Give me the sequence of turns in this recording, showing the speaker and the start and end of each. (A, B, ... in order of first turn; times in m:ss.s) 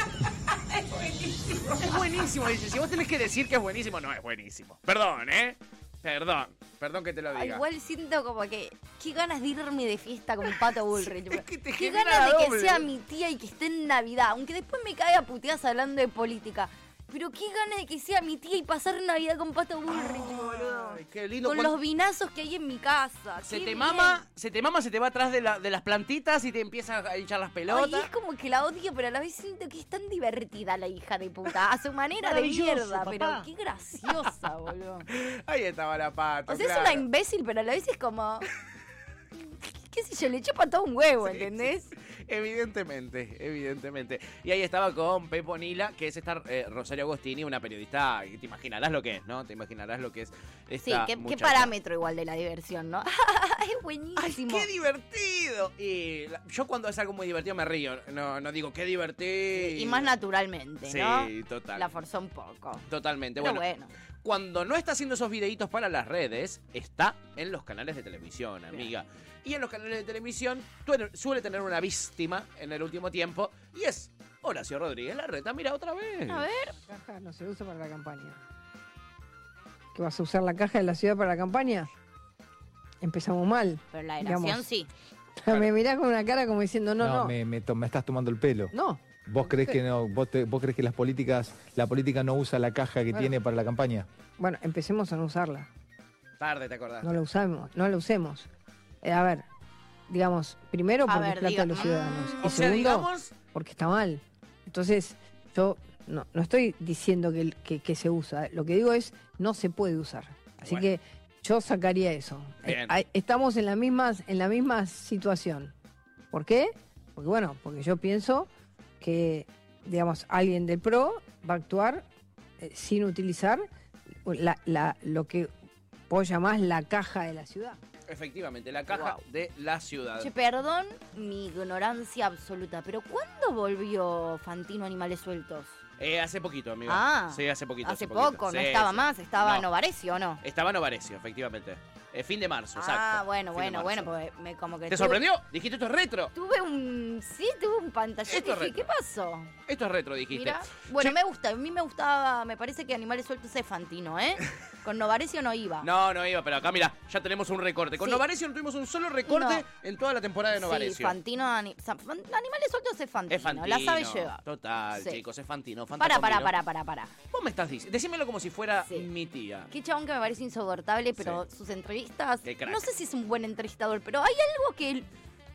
0:01.6-0:07.6 A
0:07.3-0:24.2 B
0:10.4-0:12.9 A
0:19.9-0:21.8 A
0:23.4-0:28.1 A
0:27.7-0:35.1 B
0:32.2-0:33.5 A
0:34.0-0:34.3 A
0:35.1-0:37.0 A
0:36.5-0:38.5 B
0:39.6-0:41.9 B
0:41.2-0:51.7 A
0:50.8-0:54.7 B
0:54.2-1:00.1 A
0:59.5-1:02.8 B
1:00.8-1:01.9 A
1:02.9-1:03.6 A
1:03.4-1:03.9 B
1:04.2-1:16.4 A
1:16.3-1:16.8 B
1:16.8-1:18.4 C
1:19.9-1:21.9 C
1:23.0-1:24.6 C
1:23.9-1:24.9 B
1:25.4-1:27.3 C
1:27.0-1:28.7 D
1:28.7-1:29.8 C
1:29.2-1:34.1 D
1:33.1-1:33.4 C
1:34.4-1:35.7 C
1:36.4-1:37.1 A
1:37.0-1:38.5 C
1:39.0-1:39.5 C
1:40.1-1:55.7 C
1:41.0-1:42.7 B
1:41.8-1:43.3 A
1:50.6-1:50.9 A
1:52.6-1:53.0 A
1:56.3-1:58.5 C
1:59.0-2:02.0 C
2:02.6-2:03.7 C
2:04.2-2:05.5 C
2:06.1-2:07.8 C
2:08.1-2:10.3 A
2:08.9-2:09.2 B
2:10.2-2:15.8 B
2:16.0-2:19.7 A
2:16.9-2:20.4 B
2:20.4-2:24.1 A
2:22.8-2:25.2 B
2:24.9-2:26.3 A
2:26.3-2:29.5 B
2:28.3-2:28.9 A
2:29.7-2:31.2 A
2:30.3-2:35.9 B
2:35.8-2:41.2 A
2:39.3-2:39.6 B
2:40.5-2:44.4 B
2:43.3-2:46.5 A
2:44.9-2:45.2 B
2:46.0-2:47.1 B
2:47.3-2:49.7 A
2:49.7-2:55.1 B
2:52.4-2:52.8 A